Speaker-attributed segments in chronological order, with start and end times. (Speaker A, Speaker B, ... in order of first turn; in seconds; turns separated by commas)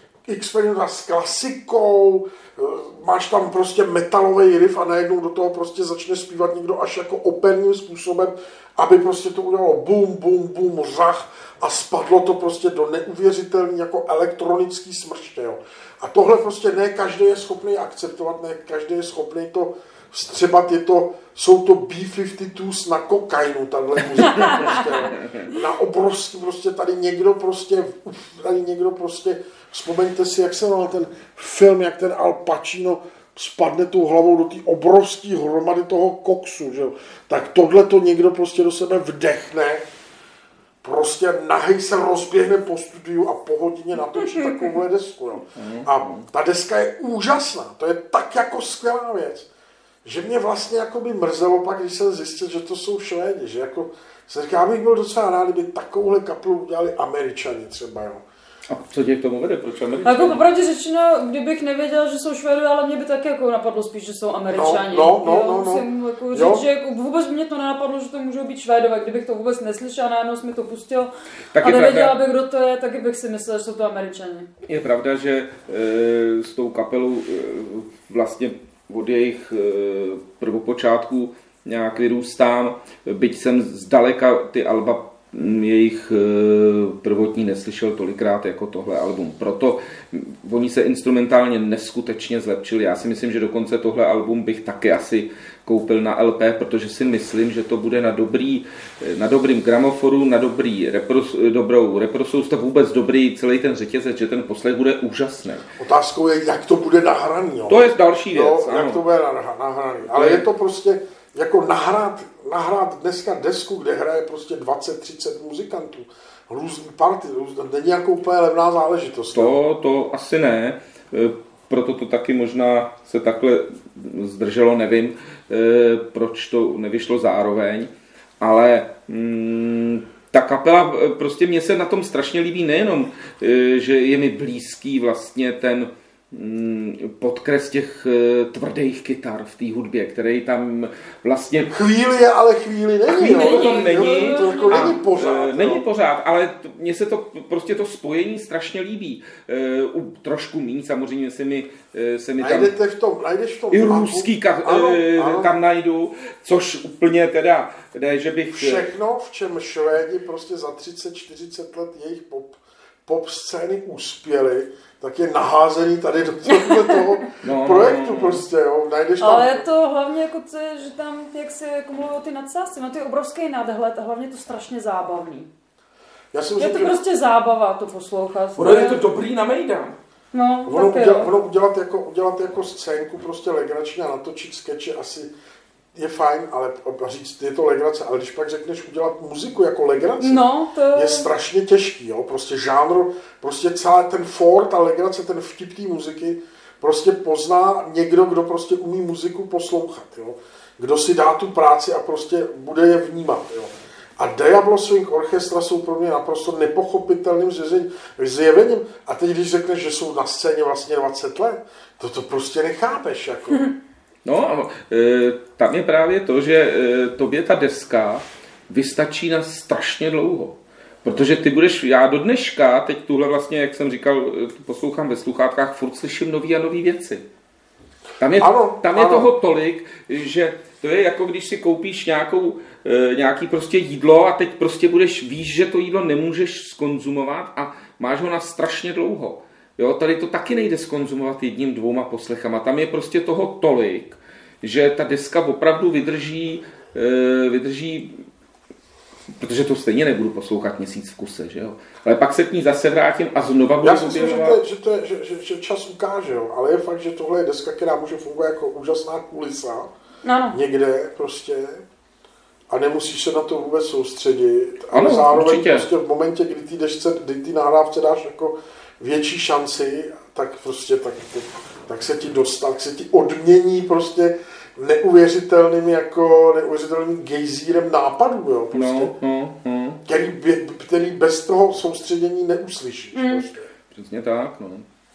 Speaker A: 0.3-39.8, Speaker A: 40.8-49.5, Speaker B: 45.5-46.2, Speaker A: 50.0-58.2, Speaker B: 58.7-60.4, Speaker C: 60.0-74.5, Speaker A: 64.5-66.6, Speaker B: 71.5-72.2, Speaker B: 74.6-105.7, Speaker A: 105.8-119.5, Speaker B: 107.7-109.0, Speaker B: 110.0-110.4, Speaker B: 119.3-141.8, Speaker A: 141.7-145.8, Speaker B: 143.1-152.7, Speaker C: 143.2-145.0, Speaker A: 152.4-155.5, Speaker B: 153.7-158.9, Speaker A: 158.5-169.7, Speaker C: 166.6-167.0, Speaker B: 167.4-168.4, Speaker C: 169.2-175.5, Speaker A: 176.3-177.0, Speaker C: 176.6-179.0, Speaker B: 178.6-179.9, Speaker C: 180.3-181.3, Speaker A: 180.7-185.3, Speaker A: 185.9-213.7, Speaker C: 190.2-191.3, Speaker B: 214.2-227.2, Speaker B: 228.2-248.1, Speaker A: 228.4-229.3, Speaker B: 249.4-254.6, Speaker A: 253.8-259.9, Speaker C: 260.2-260.6, Speaker A: 260.5-261.8, Speaker A: 262.7-279.1, Speaker B: 264.9-265.9, Speaker B: 278.7-280.0, Speaker A: 280.1-283.6, Speaker C: 283.1-283.5, Speaker B: 283.9-284.9